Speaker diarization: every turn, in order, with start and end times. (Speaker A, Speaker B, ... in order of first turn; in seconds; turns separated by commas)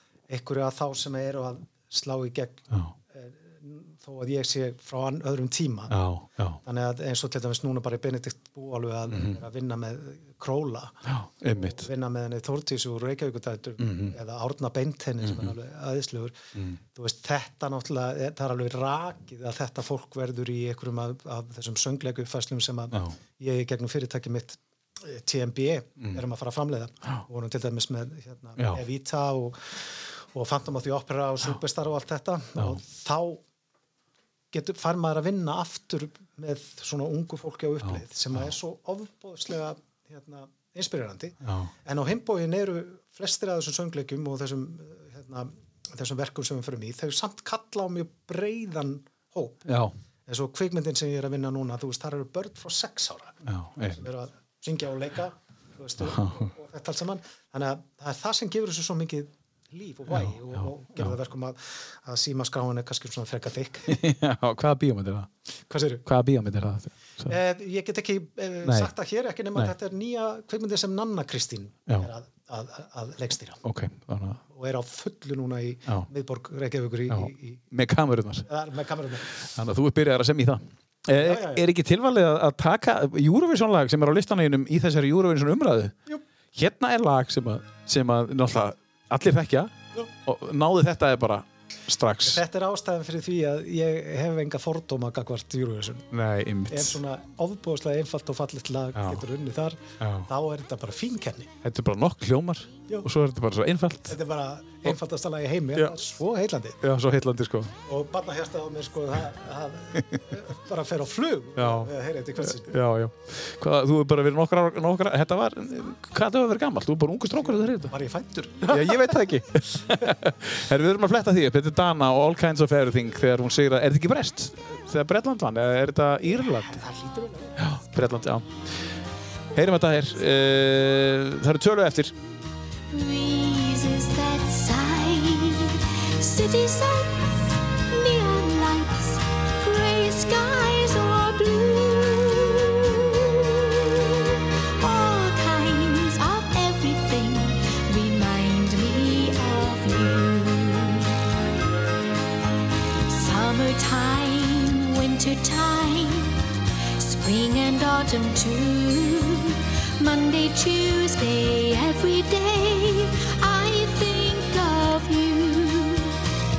Speaker A: 0.3-5.9, Speaker B: 5.9-6.6, Speaker A: 6.6-16.4, Speaker B: 9.1-9.4, Speaker B: 11.1-11.9, Speaker B: 13.8-14.1, Speaker B: 15.2-15.5, Speaker A: 16.9-33.4, Speaker A: 34.5-49.7, Speaker B: 37.8-38.4, Speaker B: 41.4-41.7, Speaker B: 49.6-49.9, Speaker A: 50.3-53.4, Speaker B: 53.4-54.0, Speaker A: 53.9-64.0, Speaker B: 56.0-56.5, Speaker B: 60.1-61.1, Speaker B: 63.9-65.3, Speaker A: 65.7-66.0, Speaker B: 66.0-67.3, Speaker A: 67.2-73.6, Speaker B: 68.6-68.9, Speaker B: 73.6-74.4, Speaker A: 74.5-77.6, Speaker B: 77.1-78.5, Speaker A: 78.5-79.3, Speaker B: 79.4-85.9, Speaker A: 81.1-81.7, Speaker B: 86.5-92.4, Speaker A: 92.2-96.1, Speaker B: 96.1-97.0, Speaker A: 96.7-101.5, Speaker B: 98.9-99.2, Speaker B: 100.0-100.3, Speaker B: 101.6-104.2, Speaker A: 104.1-106.8, Speaker B: 106.8-107.7, Speaker A: 107.8-112.7, Speaker B: 111.6-117.9, Speaker A: 117.4-119.1, Speaker B: 118.6-126.8, Speaker A: 126.4-127.7, Speaker B: 127.6-128.6, Speaker B: 129.5-132.1, Speaker C: 132.9-151.2, Speaker C: 153.1-166.2